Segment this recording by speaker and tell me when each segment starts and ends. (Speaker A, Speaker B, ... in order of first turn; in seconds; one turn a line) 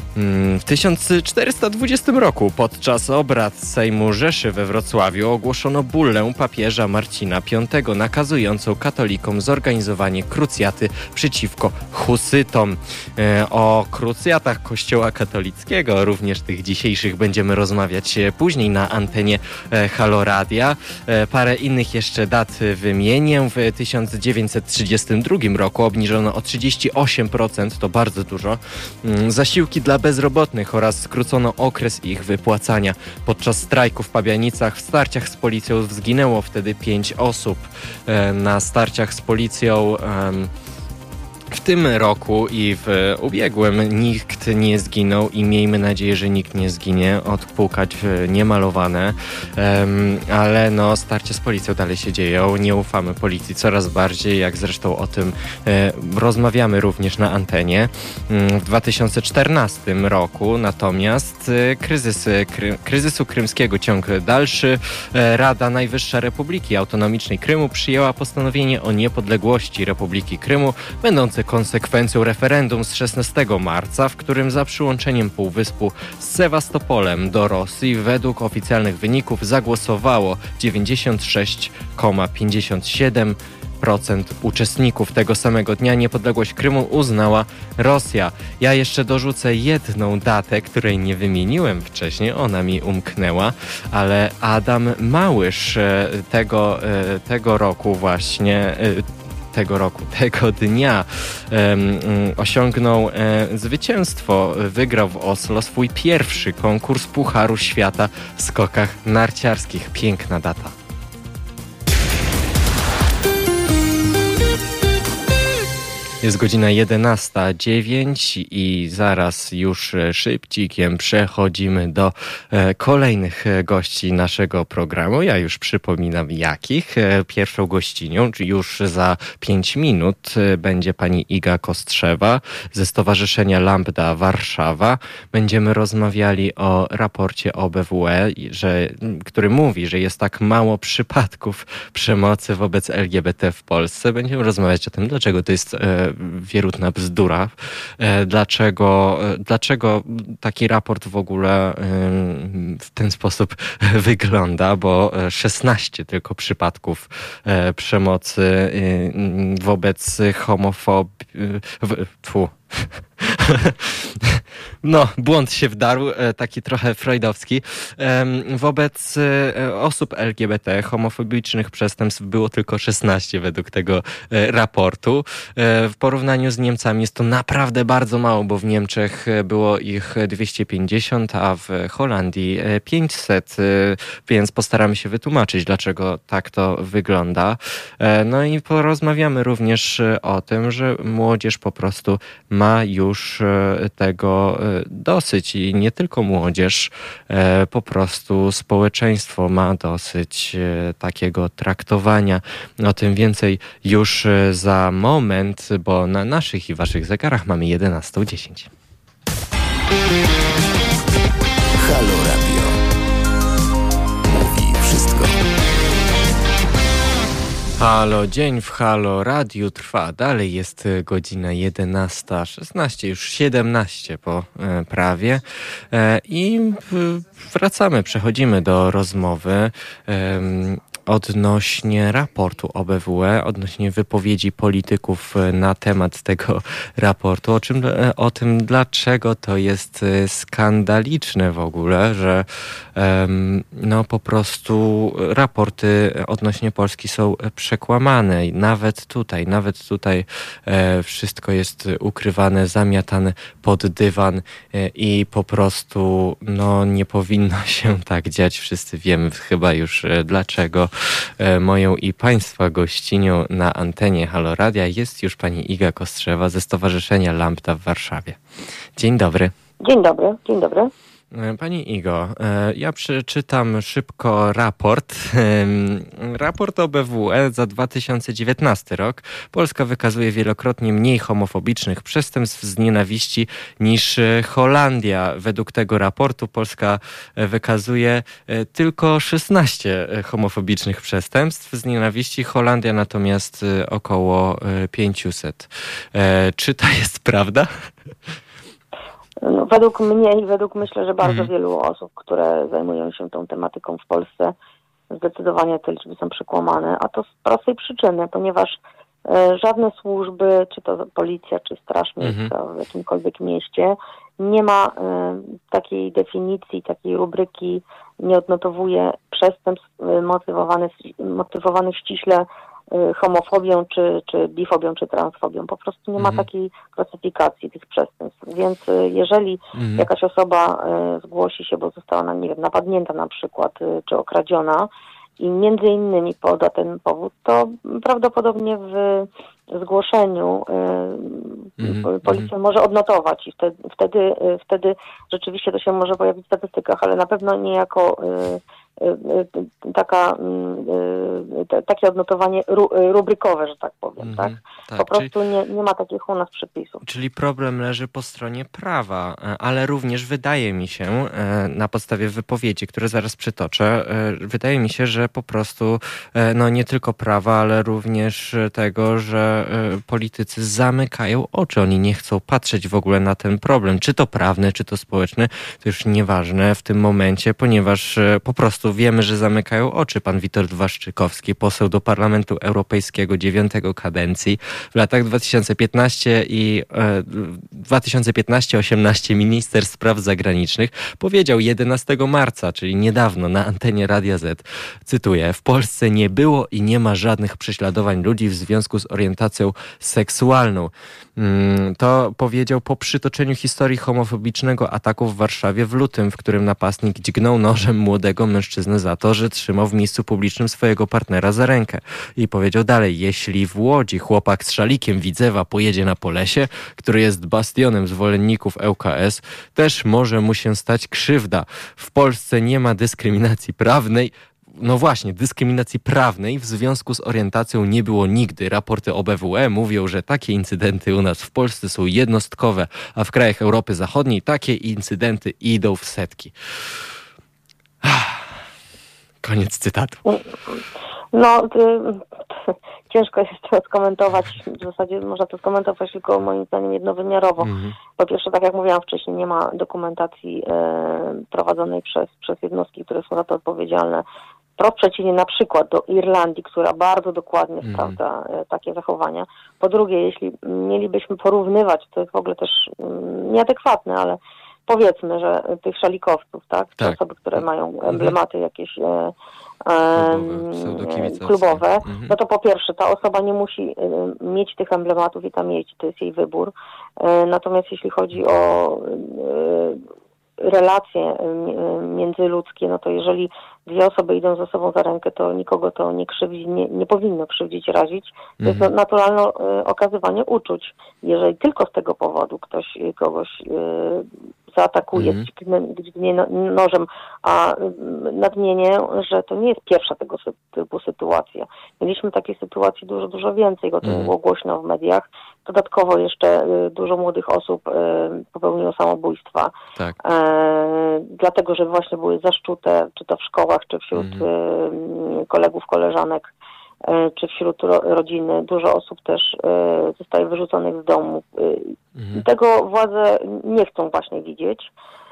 Speaker A: 0.1-40.5
Speaker A: 41.5-110.7
Speaker A: 116.2-208.7
Speaker B: 211.8-212.8
Speaker B: 214.2-215.4
Speaker A: 217.8-268.4
Speaker A: 268.9-269.5
Speaker C: 269.8-270.9
Speaker A: 271.3-297.7
Speaker C: 299.4-304.6
Speaker A: 301.2-301.5
Speaker C: 305.1-357.0
Speaker A: 312.2-312.5
Speaker A: 326.2-326.4
Speaker A: 329.7-330.1
Speaker A: 341.8-342.5
Speaker A: 354.2-355.3
Speaker A: 357.0-436.6
Speaker A: 438.0-438.6
Speaker A: 439.4-440.2
Speaker C: 440.2-440.8
Speaker C: 441.3-454.2
Speaker A: 447.6-448.0
Speaker C: 454.8-469.3
Speaker A: 457.8-458.2
Speaker A: 467.0-468.4
Speaker C: 469.9-480.0
Speaker A: 470.1-472.3
Speaker C: 480.6-516.5
Speaker A: 488.6-488.9
Speaker A: 495.1-495.5
Speaker A: 504.0-504.3
Speaker A: 514.1-514.5
Speaker C: 517.0-524.9
Speaker A: 522.2-522.4